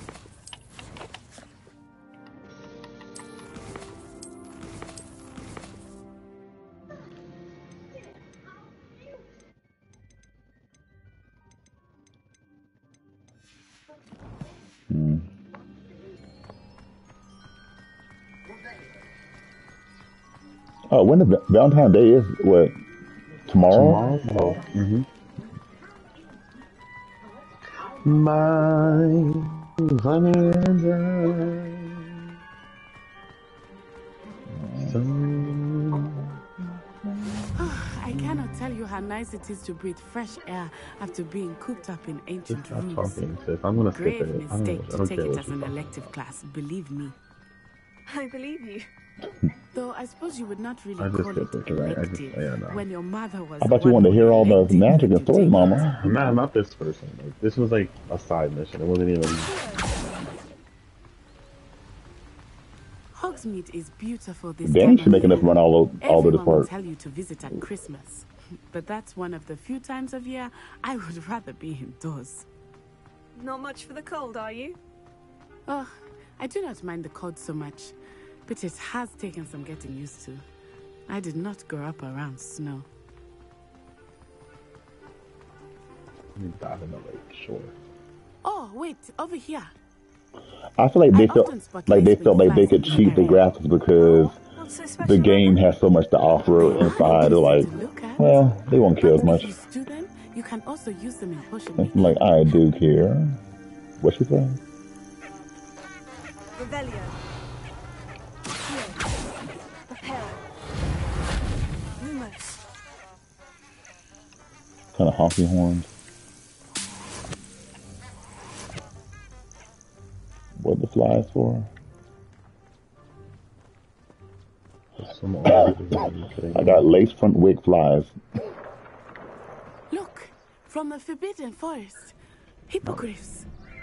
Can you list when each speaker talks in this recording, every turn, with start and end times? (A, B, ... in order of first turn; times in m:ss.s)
0:14.9-0:15.3 A
0:20.9-0:22.8 A
0:23.5-0:24.6 A
0:23.7-0:25.1 B
0:27.8-0:32.0 B
0:34.5-0:35.0 A
0:34.8-0:36.2 B
0:37.6-0:47.2 C
0:42.5-0:45.9 B
0:48.1-0:48.9 D
0:49.7-0:55.9 C
0:51.0-0:52.8 B
0:53.6-0:56.3 A
0:56.0-0:59.5 B
0:59.4-1:00.1 E
1:03.1-1:05.5 C
1:04.6-1:06.7 A
1:06.0-1:12.5 C
1:13.4-1:14.8 D
1:15.7-1:17.9 C
1:18.5-1:20.4 C
1:21.1-1:22.9 C
1:26.4-1:27.8 B
1:28.4-1:29.7 C
1:30.8-1:34.4 A
1:31.1-1:33.5 C
1:34.0-1:35.7 D
1:35.0-1:39.5 A
1:36.5-1:42.3 C
1:41.8-1:43.4 A
1:44.0-1:44.6 A
1:46.6-1:47.2 E
1:48.7-1:49.2 E
1:49.9-1:50.5 E
1:52.0-1:52.6 D
1:55.0-1:55.9 A
2:00.6-2:01.7 A
2:05.0-2:06.8 B
2:05.5-2:05.7 A
2:06.5-2:08.2 A
2:09.9-2:12.2 C
2:12.7-2:13.5 C